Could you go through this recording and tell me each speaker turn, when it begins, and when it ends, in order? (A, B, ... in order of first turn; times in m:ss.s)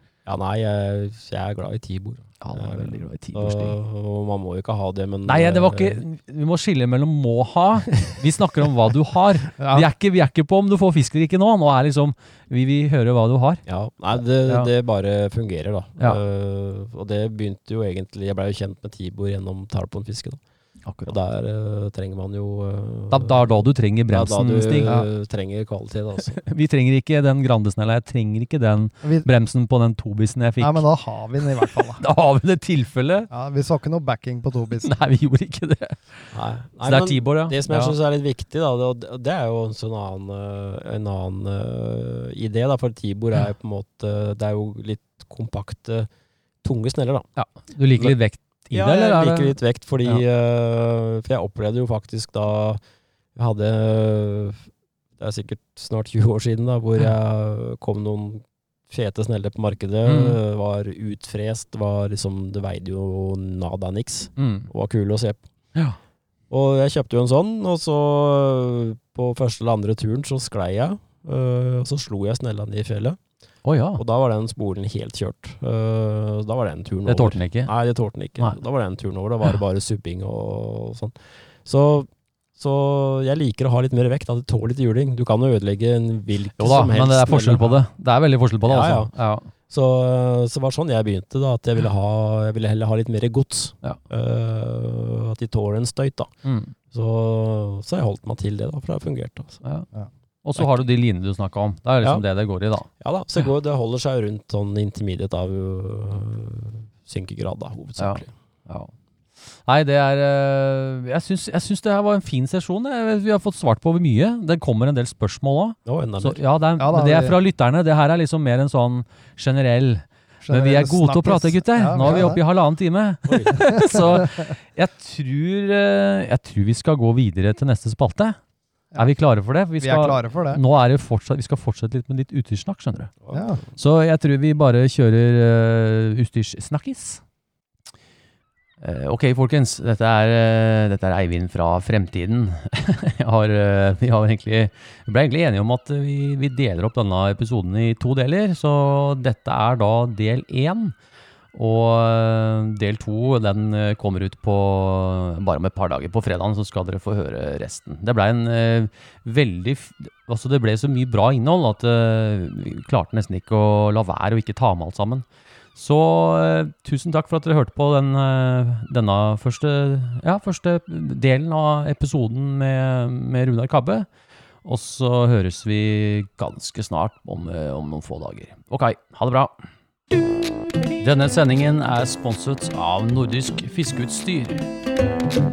0:00.3-0:06.0 A
0:02.4-0:03.8 B
0:05.3-0:13.6 B
0:09.6-0:09.9 C
0:13.7-0:20.4 A
0:20.8-0:21.2 B
0:21.1-0:23.5 A
0:23.1-0:25.0 B
0:24.1-0:26.4 A
0:26.4-0:30.9 B
0:30.6-0:32.0 C
0:31.4-0:33.3 B
0:33.3-0:34.9 C
0:34.8-0:36.3 B
0:36.3-0:46.1 A
0:36.8-0:38.0 B
0:46.6-0:47.3 A
0:47.4-0:50.2 B
0:48.7-0:52.8 A
0:53.4-0:54.7 A
0:55.2-1:05.4 A
1:00.0-1:00.4 B
1:04.4-1:04.7 B
1:06.5-1:13.2 A
1:13.6-1:14.0 B
1:14.0-1:27.8 A
1:17.1-1:17.7 B
1:26.6-1:29.5 B
1:28.7-1:29.1 A
1:29.7-1:36.3 A
1:36.4-1:36.7 B
1:36.9-1:39.6 A
1:40.4-1:42.9 B
1:43.0-1:48.3 A
1:48.0-1:48.9 B
1:49.4-2:08.4 B
1:55.8-1:56.4 A
1:56.8-1:57.4 C
2:00.4-2:02.4 C
2:03.3-2:04.1 A
2:03.6-2:04.4 C
2:09.0-2:13.1 B
2:09.8-2:10.6 C
2:13.2-2:13.6 A
2:13.3-2:13.6 C
2:13.8-2:17.2 B
2:18.8-2:31.0 B
2:31.5-2:54.1 B
2:54.6-2:59.5 B
3:01.0-3:04.7 B